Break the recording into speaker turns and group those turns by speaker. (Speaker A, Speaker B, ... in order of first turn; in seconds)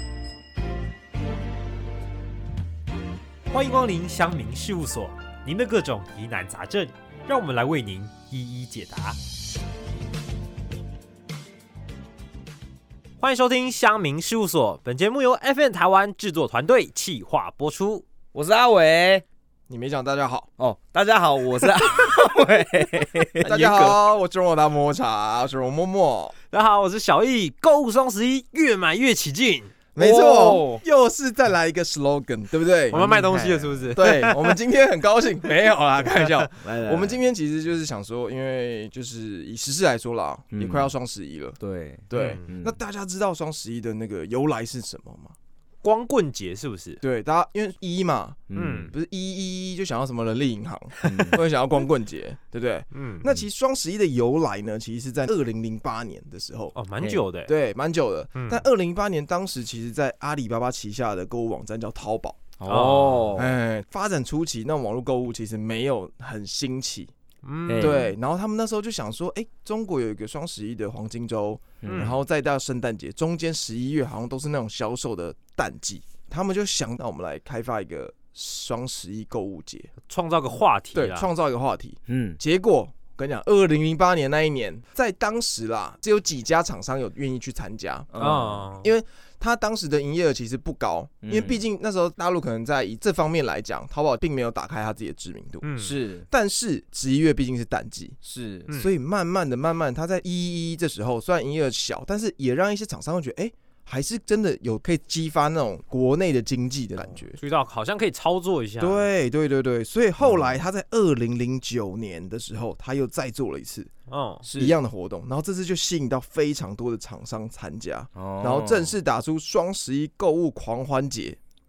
Speaker A: 3.5-9.2, 13.2-18.0, 23.5-23.9, 26.5-29.7, 32.9-34.3, 42.1-42.5, 45.8-47.0, 48.5-48.9, 50.9-51.3, 52.9-53.3, 56.7-57.5, 58.3-58.6, 62.7-63.4, 67.4-68.1, 71.8-72.2, 80.1-81.3, 88.2-88.9, 95.6-95.9, 107.0-109.1, 114.1-114.4
Speaker B: 18.3-19.2, 20.6-23.5, 30.0-30.8, 32.9-34.4, 36.6-37.2, 40.5-40.9, 41.6-42.8, 48.5-48.9, 51.1-51.4, 62.6-63.5, 67.7-68.0, 71.8-72.1, 82.1-82.4, 88.1-88.7, 91.2-91.6, 95.8-96.3, 98.2-98.7, 114.4-114.8, 118.1-118.9
Speaker C: 19.7-20.5, 23.4-26.3, 29.9-33.0, 33.9-41.6, 42.1-45.4, 47.0-62.4, 63.4-67.1, 67.8-79.9, 80.9-88.1, 88.8-95.7, 96.3-98.2, 98.7-107.4, 108.8-113.9, 114.5-121.4